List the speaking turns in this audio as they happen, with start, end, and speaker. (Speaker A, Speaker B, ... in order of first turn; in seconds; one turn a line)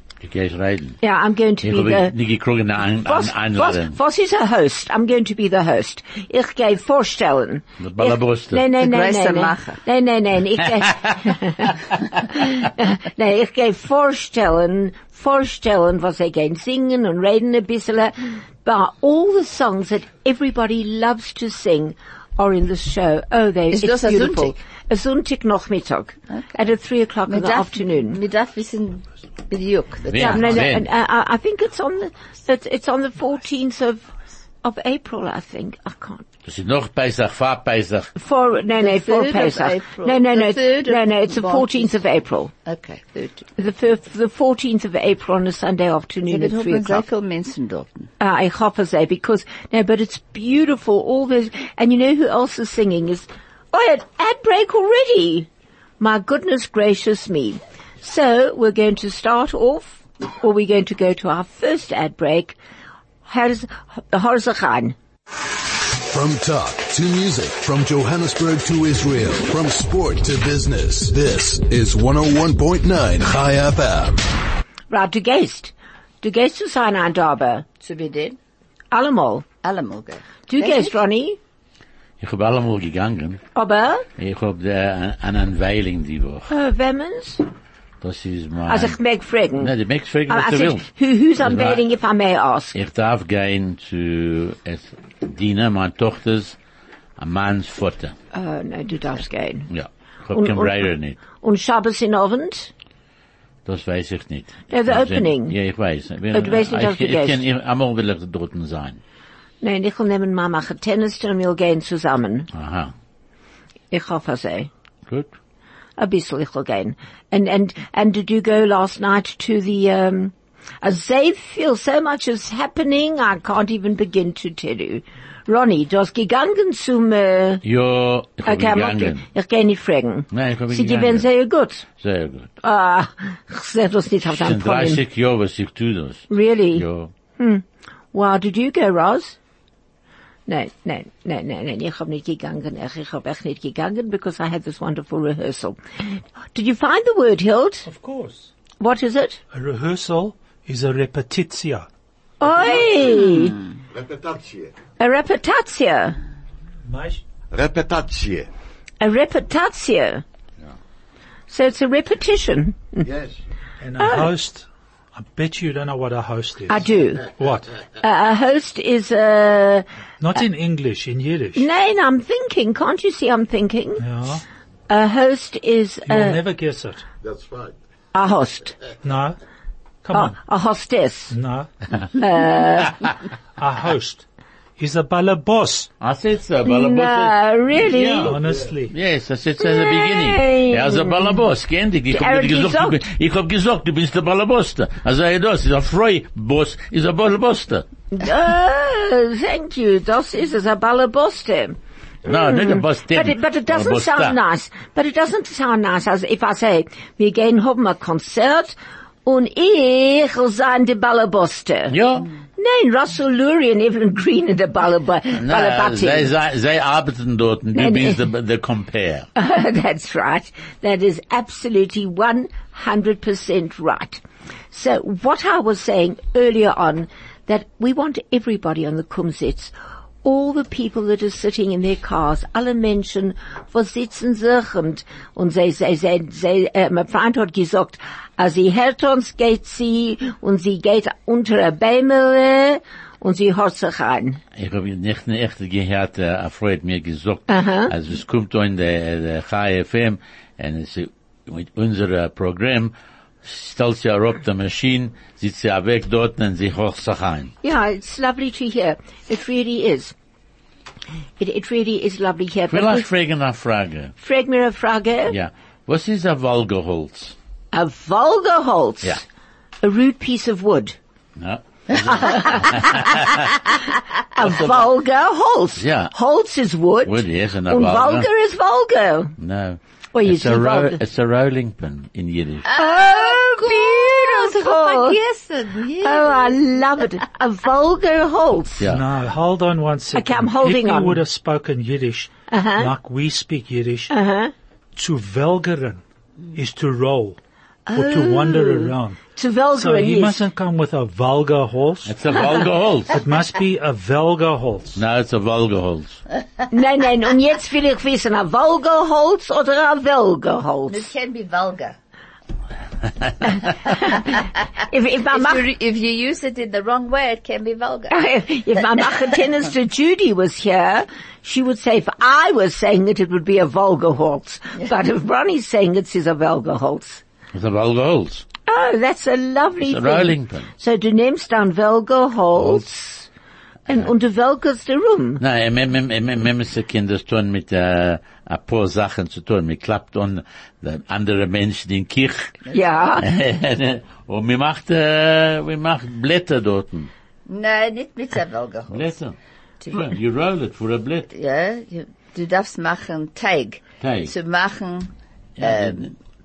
Speaker A: 0.2-1.0
Speaker B: 1.0-2.1
Speaker A: 1.6-4.0
Speaker B: 3.0-28.2
Speaker A: 7.8-8.6
Speaker C: 8.8-9.8
Speaker C: 23.7-24.5
Speaker C: 27.3-30.6
Speaker A: 30.1-30.9
Speaker B: 30.2-34.1
Speaker B: 34.6-36.2
Speaker A: 36.5-38.1
Speaker B: 38.1-42.5
Speaker C: 38.8-41.9
Speaker C: 42.6-43.5
Speaker B: 43.6-47.0
Speaker C: 46.2-48.1
Speaker B: 48.2-55.5
Speaker B: 56.0-62.6
Speaker B: 63.2-64.9
Speaker D: 66.0-74.2
Speaker B: 74.9-77.6
Speaker C: 77.8-78.4
Speaker B: 78.9-79.4
Speaker C: 79.6-80.9
Speaker B: 80.5-81.4
Speaker A: 82.2-83.4
Speaker B: 83.5-84.0
Speaker A: 84.2-86.5
Speaker B: 86.5-87.4
Speaker A: 88.0-89.0
Speaker B: 88.7-89.7
Speaker A: 89.6-90.8
Speaker B: 90.3-92.7
Speaker A: 91.4-91.8
Speaker A: 92.7-96.5
Speaker A: 97.2-98.1
Speaker B: 98.3-99.7
Speaker A: 99.7-101.2
Speaker B: 100.3-102.7
Speaker A: 103.7-109.0
Speaker B: 104.7-105.5
Speaker B: 106.3-107.4
Speaker B: 109.6-112.5
Speaker A: 112.5-112.9
Speaker B: 113.9-114.7
Speaker B: 116.0-127.6
Speaker A: 127.6-129.2
Speaker B: 128.4-131.8
Speaker A: 130.3-131.3
Speaker A: 132.0-132.5
Speaker B: 132.6-135.0
Speaker A: 134.3-137.1
Speaker B: 136.3-136.8
Speaker B: 137.4-139.3
Speaker B: 140.5-145.8
Speaker B: 146.5-147.9
Speaker E: 147.8-148.5
Speaker B: 148.8-149.4
Speaker E: 149.5-151.9
Speaker B: 152.4-153.6
Speaker F: 153.9-154.7
Speaker B: 155.0-156.2
Speaker E: 156.8-157.2
Speaker F: 157.5-158.5
Speaker B: 159.0-160.2
Speaker B: 161.5-163.1
Speaker F: 163.0-163.4
Speaker E: 163.8-167.7
Speaker B: 164.0-164.3
Speaker B: 166.7-167.3
Speaker B: 168.0-169.8
Speaker E: 170.2-171.7
Speaker B: 171.5-174.1
Speaker E: 174.0-174.4
Speaker B: 174.9-176.4
Speaker E: 176.1-177.0
Speaker F: 177.2-177.7
Speaker B: 178.1-178.7
Speaker E: 179.0-179.4
Speaker E: 180.0-180.4
Speaker B: 180.1-181.3
Speaker E: 181.3-181.7
Speaker B: 182.1-183.0
Speaker E: 183.6-184.2
Speaker E: 184.8-185.9
Speaker A: 186.0-188.3
Speaker B: 186.6-188.3
Speaker E: 188.2-188.9
Speaker A: 188.9-197.8
Speaker B: 189.6-191.4
Speaker B: 192.1-193.0
Speaker B: 198.1-212.0
Speaker A: 202.2-204.3
Speaker A: 211.9-212.3
Speaker B: 212.6-216.3
Speaker A: 215.3-219.3
Speaker B: 217.7-218.2
Speaker B: 219.3-224.2
Speaker B: 224.7-244.4
Speaker A: 244.6-252.9
Speaker B: 247.5-247.9
Speaker A: 253.4-257.5
Speaker B: 257.6-260.1
Speaker B: 261.4-263.1
Speaker A: 262.7-264.1
Speaker B: 264.2-265.3
Speaker A: 265.3-267.3
Speaker B: 267.7-269.2
Speaker B: 269.8-270.9
Speaker A: 271.4-273.5
Speaker B: 272.0-273.0
Speaker B: 274.3-279.3
Speaker A: 274.4-274.7
Speaker A: 275.8-276.1
Speaker A: 277.0-278.3
Speaker A: 279.4-282.6
Speaker B: 280.1-281.0
Speaker C: 282.6-286.6
Speaker B: 282.8-285.2
Speaker B: 286.0-288.8
Speaker A: 288.8-289.0
Speaker E: 288.8-294.1
Speaker B: 290.1-291.2
Speaker B: 292.5-292.9
Speaker B: 294.1-294.5
Speaker E: 294.9-297.4
Speaker B: 297.9-300.4
Speaker E: 297.9-299.2
Speaker E: 299.8-302.1
Speaker A: 302.1-303.2
Speaker E: 303.1-305.0
Speaker A: 304.9-306.2
Speaker B: 306.7-311.1
Speaker C: 310.9-311.9
Speaker B: 313.9-315.6
Speaker C: 315.3-318.2
Speaker B: 318.1-327.2
Speaker A: 327.5-328.4
Speaker B: 328.7-333.3
Speaker A: 329.8-330.7
Speaker A: 332.5-332.8
Speaker B: 333.9-335.4
Speaker A: 335.4-342.6
Speaker B: 342.7-343.2
Speaker A: 343.2-347.1
Speaker C: 347.5-349.1
Speaker A: 348.9-349.3
Speaker A: 349.9-351.3
Speaker C: 351.3-356.1
Speaker A: 354.0-354.3
Speaker A: 355.6-356.1